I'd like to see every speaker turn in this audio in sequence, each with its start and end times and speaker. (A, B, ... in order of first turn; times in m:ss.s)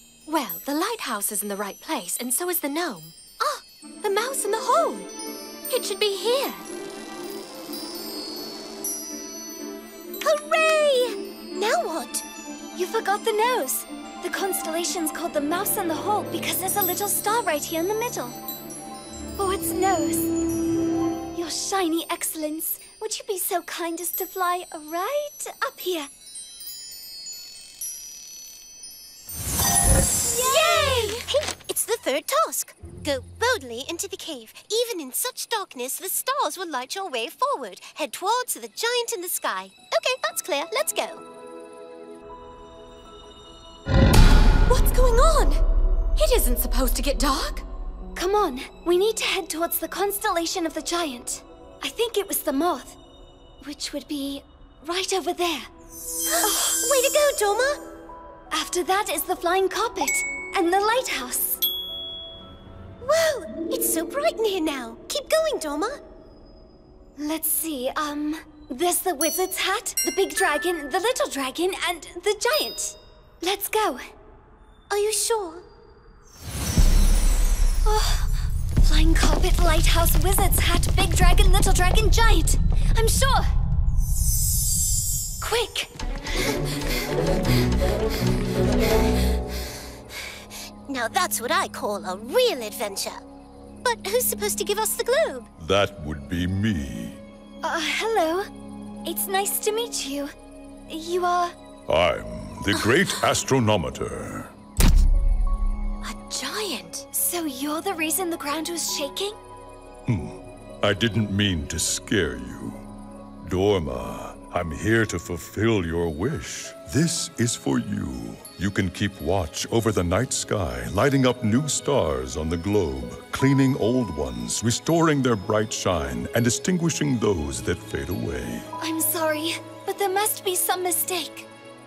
0:00.3-0:03.1 A
0:03.4-0:05.1 B
0:05.7-0:06.6 A
0:10.2-0:12.2 B
0:12.8-0:18.4 C
0:19.4-0:20.3 C
0:21.3-0:26.1 C
0:30.3-0:41.2 B
0:30.3-0:31.2 C
0:44.7-0:45.6 C
0:46.2-0:47.6 A
0:48.1-0:53.0 C
0:53.6-0:55.7 C
0:56.3-0:57.8 B
0:56.4-0:56.7 C
0:58.5-1:01.6 C
1:03.0-1:06.0 B
1:07.2-1:14.1 C
1:14.9-1:15.6 B
1:17.8-1:23.5 C
1:25.4-1:25.9 C
1:30.9-1:33.2 B
1:33.8-1:35.5 B
1:35.6-1:37.2 D
1:37.6-1:38.5 C
1:39.0-1:40.3 C
1:40.9-1:41.5 C
1:41.9-1:44.5 D
1:46.0-1:47.1 A
1:47.1-1:49.4 C
1:50.1-1:52.8 D
1:53.4-2:08.7 D
2:08.8-2:11.5 C